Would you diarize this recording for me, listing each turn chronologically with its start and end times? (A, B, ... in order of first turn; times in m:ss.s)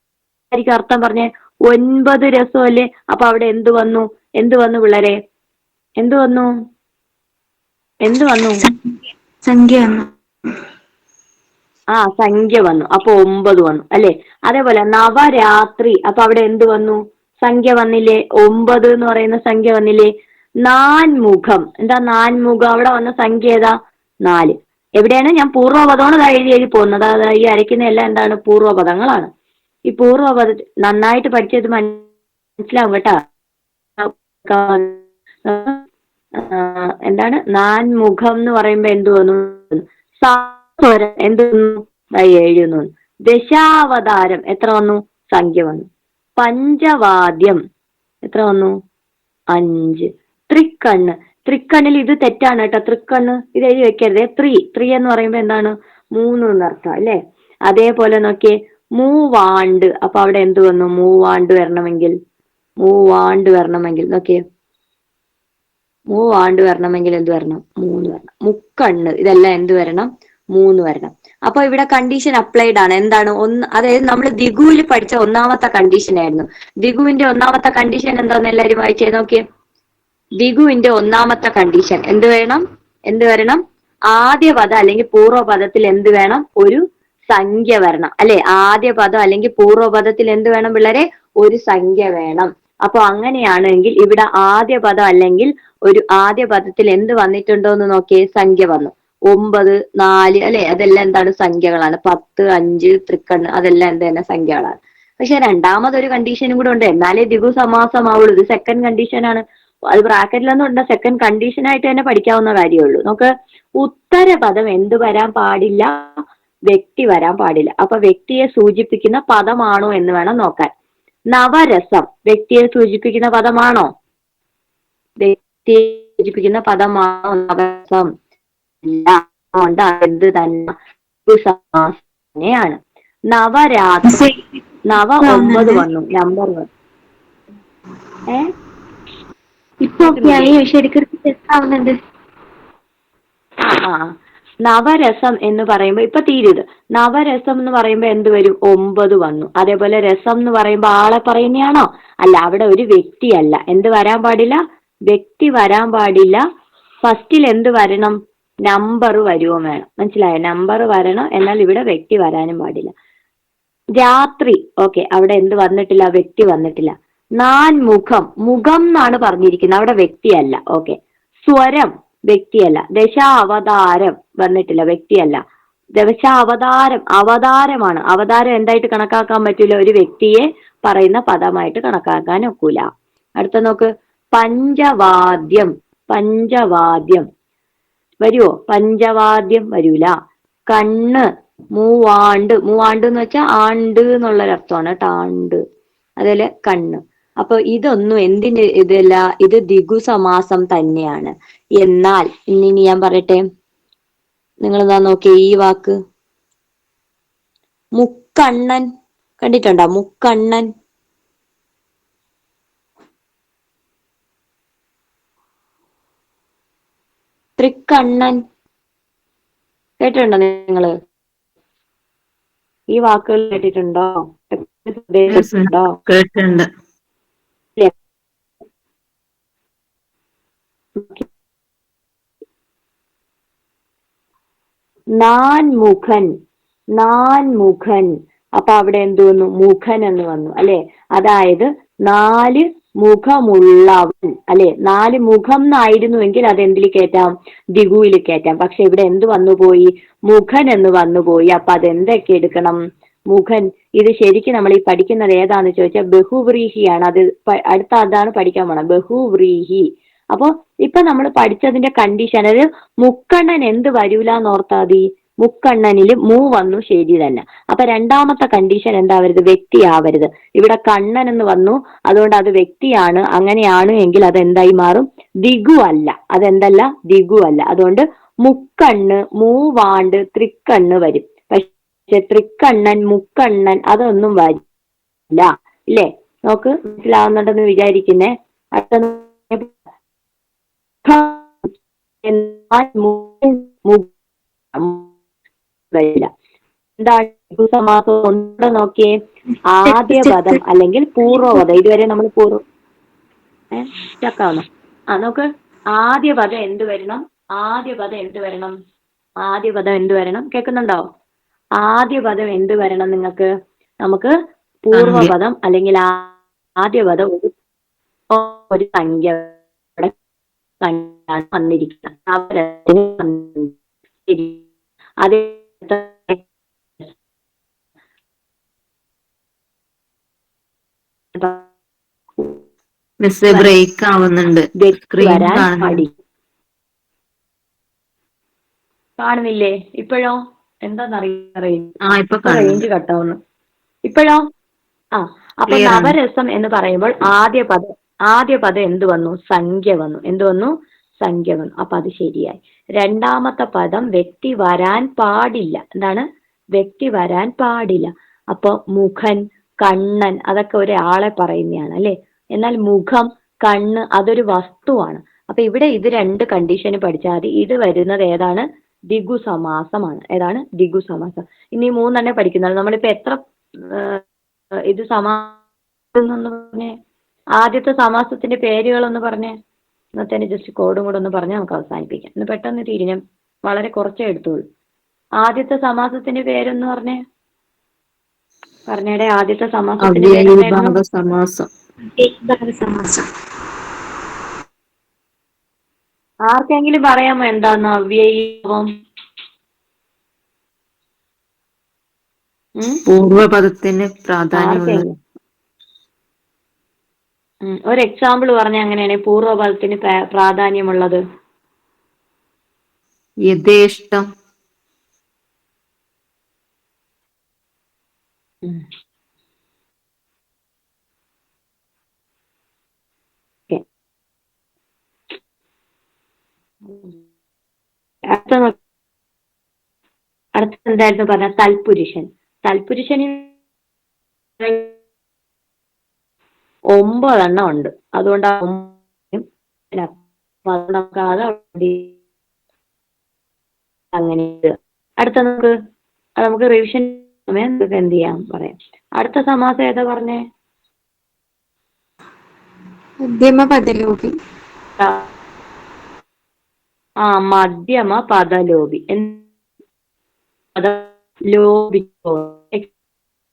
0:00.5-0:05.2 A
0:06.0-0:06.5 A
0:08.0-0:08.6 A
0:08.6-0:10.1 B
0:11.9-0:20.1 A
0:20.6-0:23.7 A
0:24.2-0:29.3 A
0:29.9-0:32.0 A
0:32.6-0:33.2 A
0:34.0-0:35.8 A
0:36.4-0:45.8 A
0:46.4-0:47.6 A
0:48.2-0:48.7 A
0:49.5-1:02.1 A
1:02.8-1:04.4 A
1:06.1-1:19.4 A
1:20.4-1:56.0 A
1:56.7-2:00.7 A
2:01.3-2:03.9 A
2:05.2-2:08.1 A
2:08.8-2:10.7 A
2:11.2-2:12.8 A
2:13.3-2:14.2 A
2:14.0-2:14.5 B
2:14.9-2:16.6 A
2:15.2-2:15.8 B
2:19.8-2:21.9 B
2:20.0-2:20.5 A
2:23.7-2:24.1 A
2:24.6-2:36.4 A
2:37.0-2:42.9 A
2:44.0-2:55.4 A
2:56.0-3:02.8 A
3:03.4-3:07.2 A
3:08.2-3:10.1 A
3:10.7-3:15.6 A
3:16.2-3:23.4 A
3:24.6-3:26.0 A
3:28.0-3:28.8 A
3:29.4-3:30.7 A
3:37.6-3:38.4 A
3:40.0-3:40.9 A
3:42.9-3:46.0 A
3:45.3-3:46.7 C
3:51.0-3:51.2 A
3:55.2-3:56.3 A
3:57.0-4:12.8 A
4:13.3-4:44.6 A
4:45.3-4:49.7 A
4:51.0-4:51.7 A
4:52.2-4:54.1 A
4:54.7-4:55.0 A
4:55.9-4:56.3 A
4:57.0-4:59.1 A
4:59.7-5:02.6 A
4:59.9-5:00.6 B
5:03.7-5:08.8 A
5:09.4-5:11.0 A
5:11.8-5:13.5 A
5:14.0-5:14.3 A
5:14.9-5:17.5 A
5:14.9-5:15.3 C
5:18.3-5:20.1 A
5:20.8-5:23.7 A
5:24.3-5:24.6 A
5:25.2-5:26.4 A
5:31.3-5:31.6 A
5:33.2-5:36.0 C
5:34.8-5:36.1 A
5:39.2-5:41.9 A
5:42.0-5:42.8 C
5:42.4-5:43.4 A
5:44.1-5:44.4 A
5:45.2-5:56.2 A
5:45.7-5:46.2 C
5:56.8-6:13.4 A
6:13.9-6:14.2 A
6:14.9-6:15.6 A
6:16.1-6:16.9 A
6:17.6-6:19.5 A
6:20.2-6:24.6 A
6:25.4-6:27.2 A
6:28.9-6:31.0 A
6:30.0-6:31.7 C
6:32.1-6:33.2 B
6:36.5-6:38.9 A
6:43.1-6:45.0 C
6:44.5-6:45.1 A
6:47.6-6:51.2 A
6:53.5-6:54.3 C
7:06.8-7:07.1 A
7:08.3-7:08.8 A
7:10.6-7:13.5 A
7:14.6-7:14.9 A
7:16.9-7:20.1 A
7:20.7-7:22.1 A
7:24.1-7:25.7 A
7:26.4-7:30.4 A
7:33.2-7:34.3 B
7:35.0-7:35.2 A
7:37.2-7:39.4 A
7:40.8-7:42.9 A